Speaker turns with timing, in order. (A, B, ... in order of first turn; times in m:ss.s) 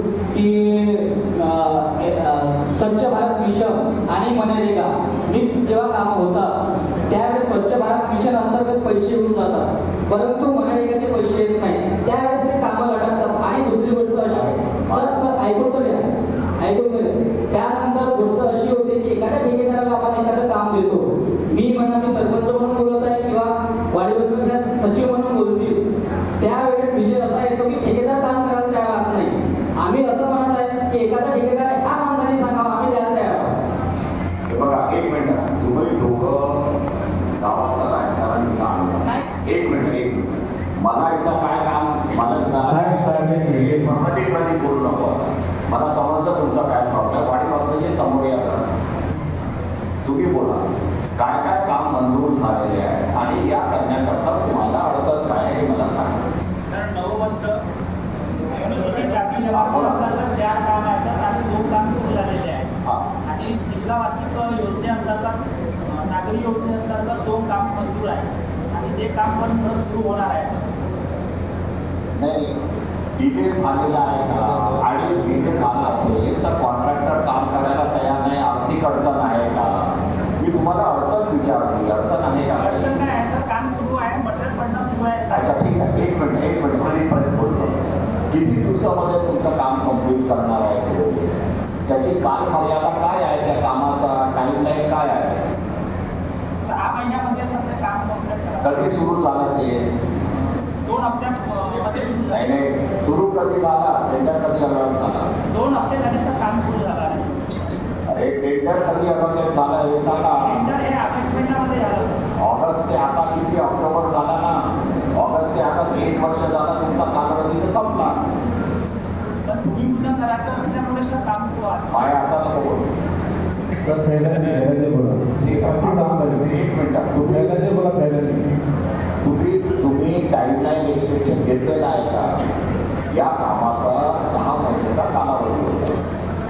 0:00.3-0:06.5 A
0:07.1-0:16.0 A
0:14.2-0:15.2 B
0:16.6-0:25.8 A
0:26.4-0:33.5 A
0:34.5-0:36.6 B
0:37.4-0:40.2 B
0:40.8-0:48.7 B
0:42.6-0:44.0 C
0:50.0-0:50.6 B
0:51.2-0:56.3 B
0:56.7-0:57.6 D
0:58.5-1:02.7 D
0:59.5-1:00.2 B
1:03.2-1:10.7 D
1:12.2-1:12.5 B
1:13.2-1:19.9 B
1:20.4-1:23.0 B
1:22.5-1:25.6 D
1:25.3-1:31.3 B
1:31.9-1:35.4 B
1:36.6-1:38.9 D
1:38.6-1:39.8 B
1:40.8-1:42.5 D
1:42.3-1:45.3 B
1:45.5-1:47.3 D
1:48.1-1:50.6 B
1:50.1-1:52.3 D
1:52.4-1:54.5 B
1:55.2-1:58.2 B
1:59.4-2:02.2 D
2:01.9-2:02.9 B
2:03.8-2:06.5 C
2:05.4-2:07.6 B
2:07.2-2:08.4 C
2:09.2-2:12.2 B
2:13.1-2:16.0 B